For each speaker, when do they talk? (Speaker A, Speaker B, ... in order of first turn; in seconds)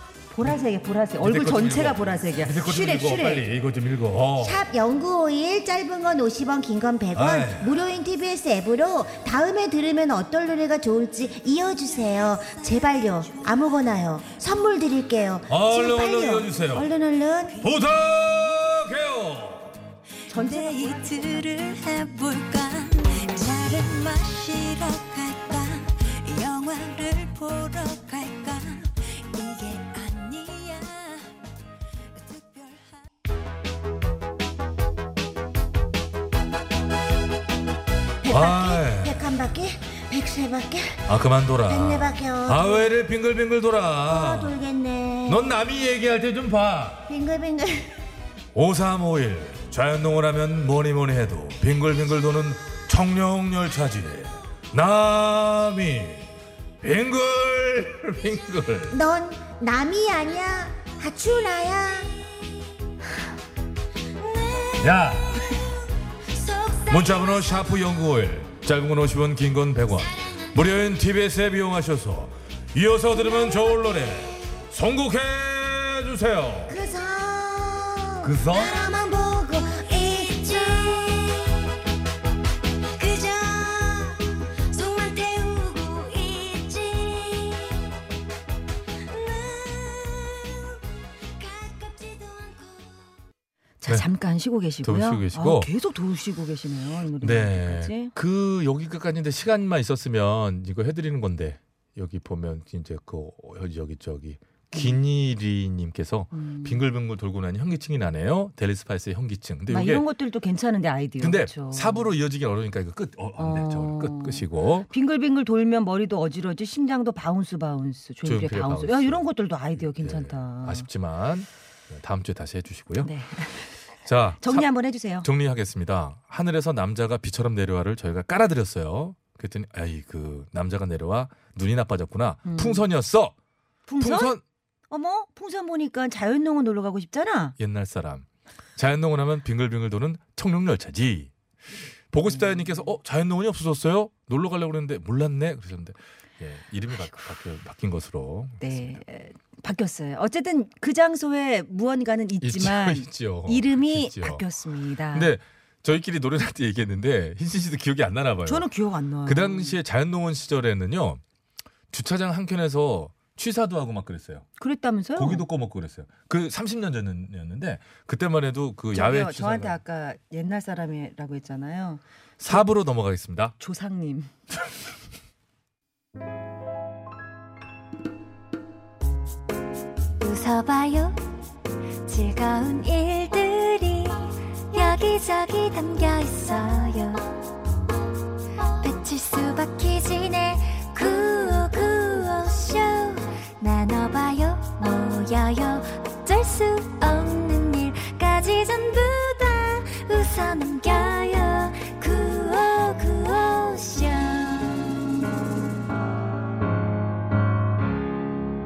Speaker A: 0.3-3.4, 20.3-21.4, 93.8-98.1, 106.3-106.8, 109.7-112.1, 113.4-120.9, 123.0-123.7, 124.4-125.3, 132.4-132.8, 133.9-134.3, 134.9-137.5, 142.5-142.8, 148.6-155.3, 158.4-159.8, 164.6-165.4, 168.9-172.6, 173.6-174.3
Speaker B: 1.2-4.6, 7.1-7.8, 15.5-16.9, 17.6-19.8, 38.3-39.3, 41.0-44.6, 45.3-47.1, 48.5-56.3, 56.8-59.0, 64.8-65.4, 66.9-76.8, 78.2-78.8, 94.8-95.7, 97.2-110.0, 111.2-114.9, 118.2-123.1, 124.0-124.7, 125.2-133.3, 134.0-134.4, 137.6-141.3, 142.1-149.0, 152.4-154.4, 155.1-158.7, 159.2-161.2, 161.9-164.4, 165.2-169.8, 172.4-173.6
Speaker C: 4.4-17.6, 20.4-20.9, 38.2-41.0, 41.7-42.9, 44.1-45.4, 47.1-48.0, 58.9-62.1, 76.7-81.0
Speaker D: 12.4-13.7, 20.3-31.3, 32.1-33.1, 64.2-65.7, 66.3-68.0, 70.0-70.6, 79.7-81.6, 83.0-87.8, 89.0-90.8, 91.4-93.0, 180.2-181.2, 182.1-187.2, 188.8-205.0